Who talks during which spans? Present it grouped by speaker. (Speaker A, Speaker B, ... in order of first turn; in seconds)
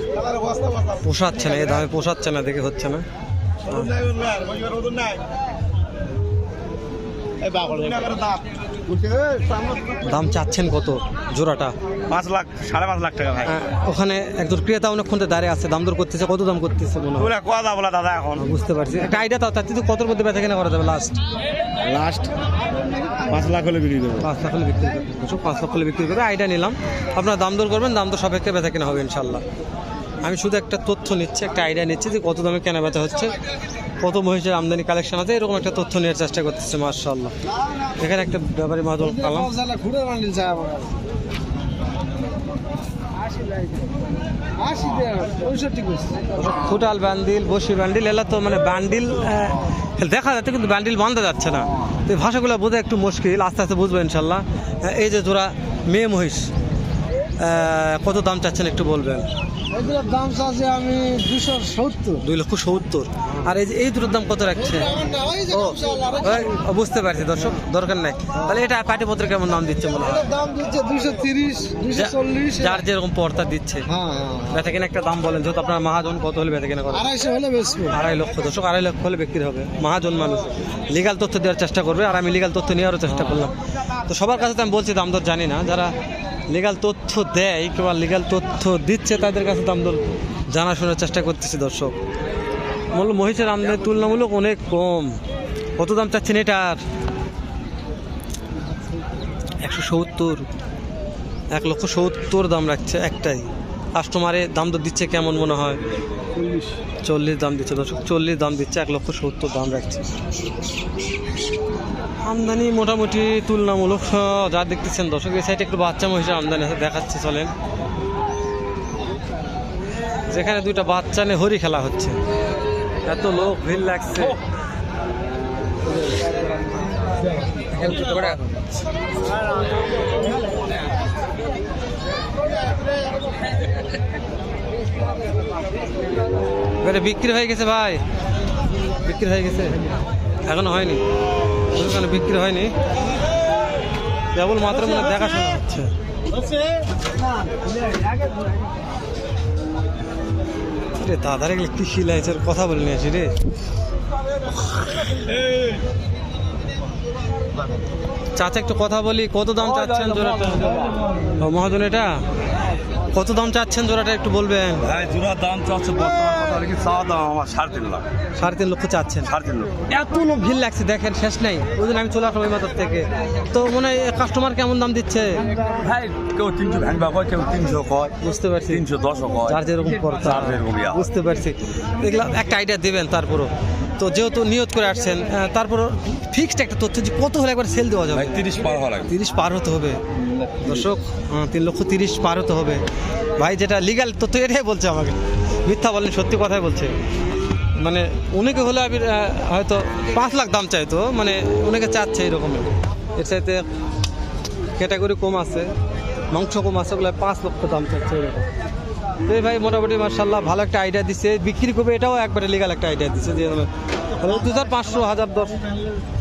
Speaker A: 0.2-0.8, 3.7-5.2, 7.4-9.6, 12.1-13.6, 17.2-18.5, 21.8-22.3, 23.2-24.3, 43.4-43.9, 106.4-106.7, 127.8-128.4, 147.5-148.3, 155.0-155.7, 159.8-160.8, 165.0-168.0, 169.4-169.7, 175.8-178.1, 178.8-179.5, 180.3-181.0, 188.2-189.0
Speaker B: 1.0-3.0, 10.0-11.8, 13.4-17.4, 18.4-21.2, 24.2-29.4, 30.2-33.3, 34.0-37.3, 38.0-39.5, 46.4-56.5, 57.4-59.3, 62.2-70.3, 71.9-73.9, 74.5-77.1, 77.9-85.9, 86.5-92.0, 92.9-95.2, 95.8-96.8, 99.6-100.5, 101.5-105.8, 107.0-110.0, 112.2-117.5, 120.3-122.2, 123.0-124.4, 127.9-128.2, 136.8-138.0, 139.0-139.8, 140.4-141.0, 141.7-142.7, 144.3-145.9, 151.0-153.3, 158.4-162.2, 163.1-164.9, 168.4-169.3, 169.9-175.4, 178.2-178.9, 179.5-188.4, 189.1-190.0, 190.6-192.8, 193.4-196.9, 197.8-203.6, 204.8-205.7, 206.3-208.5, 209.3-213.7, 214.2-215.6
Speaker C: 39.1-41.0, 44.6-46.2, 59.7-62.2, 65.0-66.3, 70.2-72.7, 73.9-74.5, 77.0-77.9, 164.9-165.4, 166.1-168.0, 177.4-178.1, 178.9-179.5, 180.3-180.8, 188.3-188.8